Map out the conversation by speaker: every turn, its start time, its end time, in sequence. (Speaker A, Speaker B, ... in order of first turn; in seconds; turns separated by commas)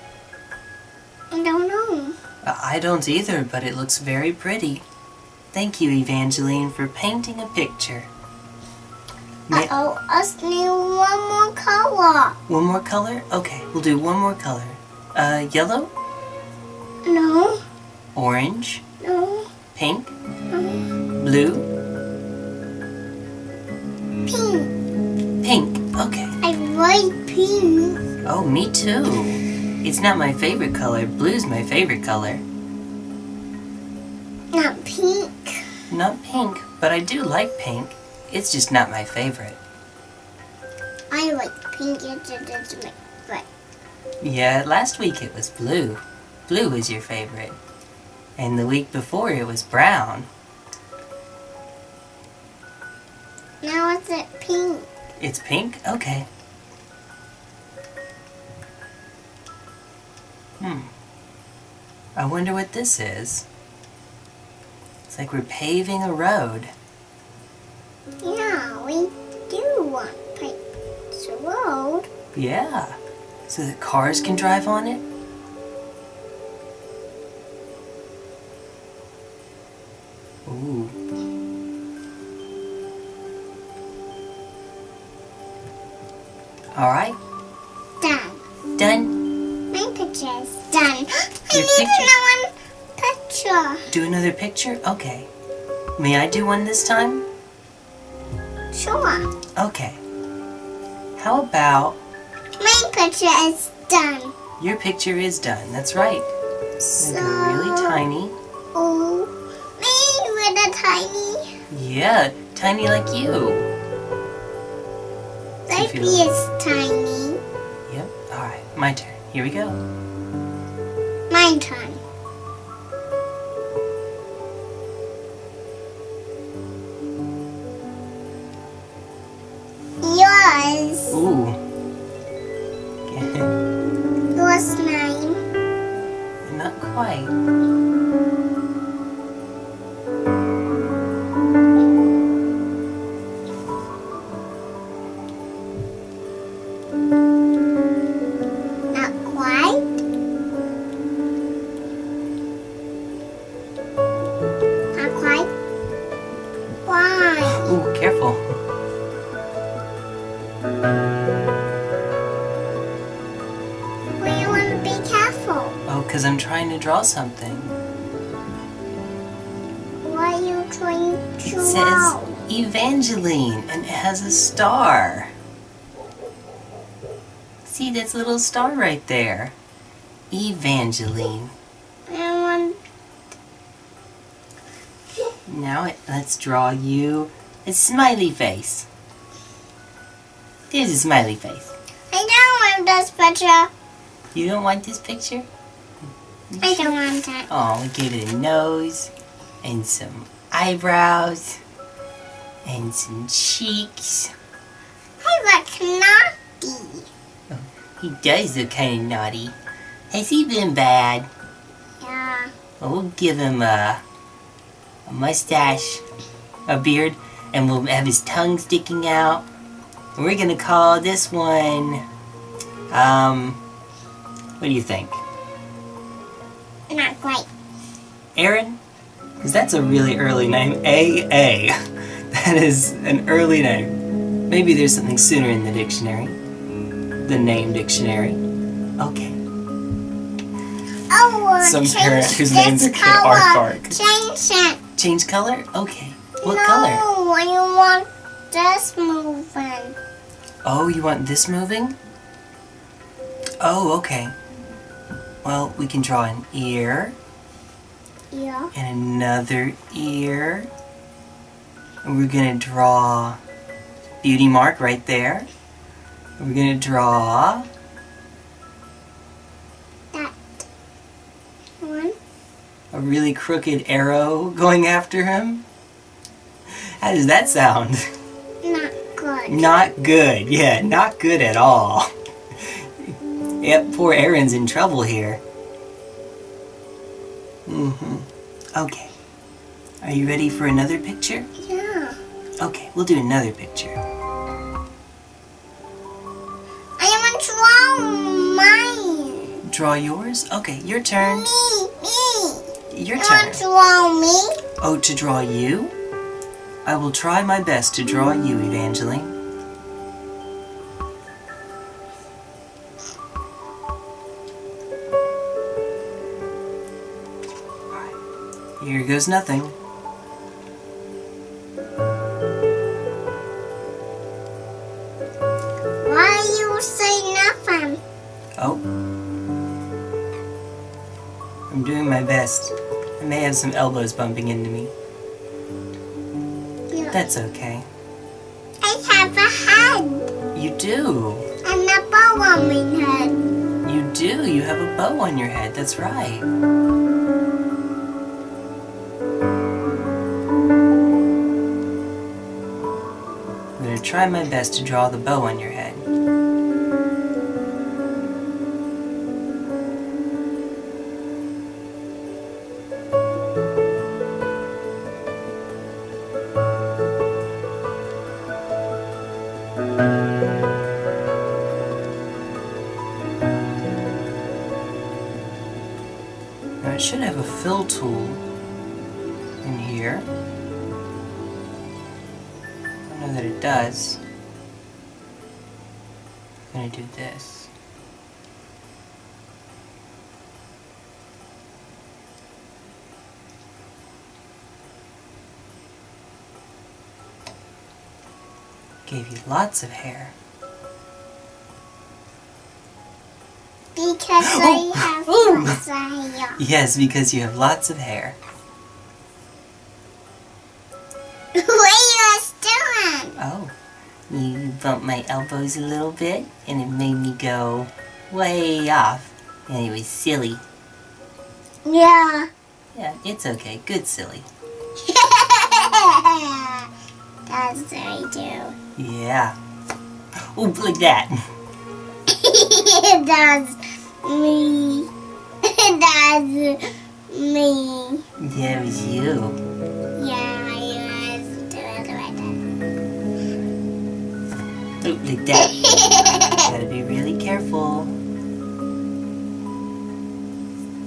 Speaker A: 1.3-2.1, Speaker B: 2.4-4.8, Speaker B: 5.5-8.1, Speaker A: 9.5-12.4, Speaker B: 12.5-15.9, Speaker A: 17.0-17.6, Speaker B: 18.1-18.8, Speaker A: 19.0-19.5, Speaker B: 19.7-20.1, Speaker A: 20.5-20.9, Speaker B: 21.2-21.7, Speaker A: 24.2-24.7, Speaker B: 25.4-26.3, Speaker A: 26.4-28.0, Speaker B: 28.2-32.4, Speaker A: 34.5-35.7, Speaker B: 35.9-39.6, Speaker A: 41.1-43.5, Speaker B: 44.2-47.6, Speaker B: 48.4-50.3, Speaker A: 53.6-54.9, Speaker B: 55.2-56.3, Speaker B: 60.6-60.9, Speaker B: 62.1-63.5, Speaker B: 65.1-66.7, Speaker A: 68.2-70.6, Speaker A: 71.1-72.1, Speaker B: 72.3-75.0, Speaker B: 80.5-80.9, Speaker B: 86.7-87.2, Speaker A: 88.0-88.4, Speaker B: 88.8-89.2, Speaker A: 89.7-93.9, Speaker B: 91.5-92.2, Speaker B: 93.9-95.3, Speaker B: 96.0-97.2, Speaker A: 98.7-99.3, Speaker B: 99.5-100.0, Speaker B: 101.2-102.0, Speaker A: 102.6-104.3, Speaker B: 104.6-106.3, Speaker A: 106.8-108.0, Speaker B: 107.0-108.3, Speaker A: 108.7-111.5, Speaker B: 111.7-113.7, Speaker A: 115.7-117.4, Speaker B: 115.7-116.3, Speaker B: 117.9-119.8, Speaker A: 121.3-122.0, Speaker A: 130.0-131.2, Speaker B: 131.1-131.6, Speaker B: 133.1-133.5, Speaker A: 134.3-135.4, Speaker B: 136.4-137.3, Speaker A: 148.9-150.0, Speaker A: 154.9-155.5, Speaker A: 156.8-157.7, Speaker B: 157.5-158.4, Speaker A: 164.2-165.8, Speaker B: 165.9-167.7, Speaker A: 170.0-172.4, Speaker B: 171.4-175.3, Speaker B: 177.6-179.5, Speaker B: 180.3-181.5, Speaker A: 182.1-182.8, Speaker B: 185.5-188.9, Speaker B: 190.7-191.7, Speaker A: 192.1-193.7, Speaker B: 194.3-195.5, Speaker B: 196.5-197.0, Speaker A: 196.6-197.5, Speaker B: 197.5-199.1, Speaker B: 199.6-201.6, Speaker B: 202.6-204.3, Speaker A: 205.2-207.1, Speaker B: 207.5-209.6, Speaker B: 210.1-211.3, Speaker A: 212.0-212.5, Speaker B: 212.8-214.0, Speaker B: 215.1-216.0, Speaker B: 216.7-219.5, Speaker B: 220.2-222.0, Speaker B: 222.9-223.6, Speaker B: 224.6-225.2, Speaker A: 226.9-227.5, Speaker B: 228.3-228.8, Speaker B: 229.4-231.8, Speaker B: 232.3-236.4, Speaker B: 237.2-238.4, Speaker B: 239.0-239.4, Speaker A: 241.1-244.8, Speaker B: 241.6-244.0, Speaker B: 245.0-247.0, Speaker A: 246.4-249.9, Speaker B: 250.6-251.9, Speaker B: 253.6-254.3, Speaker B: 255.4-257.2, Speaker A: 258.3-258.7, Speaker B: 258.7-260.7, Speaker B: 262.0-263.4, Speaker B: 264.2-265.5, Speaker B: 266.4-267.7, Speaker A: 270.1-270.6, Speaker A: 271.8-272.1, Speaker B: 272.9-275.6, Speaker B: 276.7-278.0, Speaker A: 278.6-279.8, Speaker B: 279.5-285.4, Speaker B: 287.6-289.1, Speaker B: 290.0-291.5, Speaker A: 291.6-292.2, Speaker B: 292.6-294.0, Speaker A: 297.0-299.6, Speaker B: 299.6-301.5, Speaker A: 301.2-304.6, Speaker B: 302.9-303.6, Speaker B: 304.8-305.9, Speaker B: 306.8-309.3, Speaker B: 318.8-319.7, Speaker A: 326.0-328.0, Speaker B: 328.6-328.8, Speaker B: 331.7-334.9, Speaker A: 336.9-337.2, Speaker B: 337.1-337.9, Speaker A: 338.8-340.3, Speaker B: 340.5-341.5, Speaker A: 341.6-343.4, Speaker B: 343.8-346.5, Speaker B: 353.8-356.0, Speaker B: 376.8-378.4, Speaker B: 379.6-380.3, Speaker B: 383.1-384.2, Speaker B: 386.7-387.7, Speaker B: 399.0-400.3, Speaker A: 403.9-406.6, Speaker B: 404.4-405.8, Speaker B: 406.6-408.4, Speaker A: 411.5-413.4, Speaker B: 413.4-413.7, Speaker B: 414.3-420.6, Speaker A: 421.8-422.5, Speaker B: 422.9-424.5, Speaker A: 425.0-426.9, Speaker A: 427.5-428.7, Speaker B: 428.9-429.6, Speaker B: 430.5-431.3, Speaker A: 432.3-435.1, Speaker A: 435.6-438.2, Speaker B: 438.4-439.6, Speaker A: 440.1-442.6, Speaker B: 445.0-448.1, Speaker A: 445.6-446.7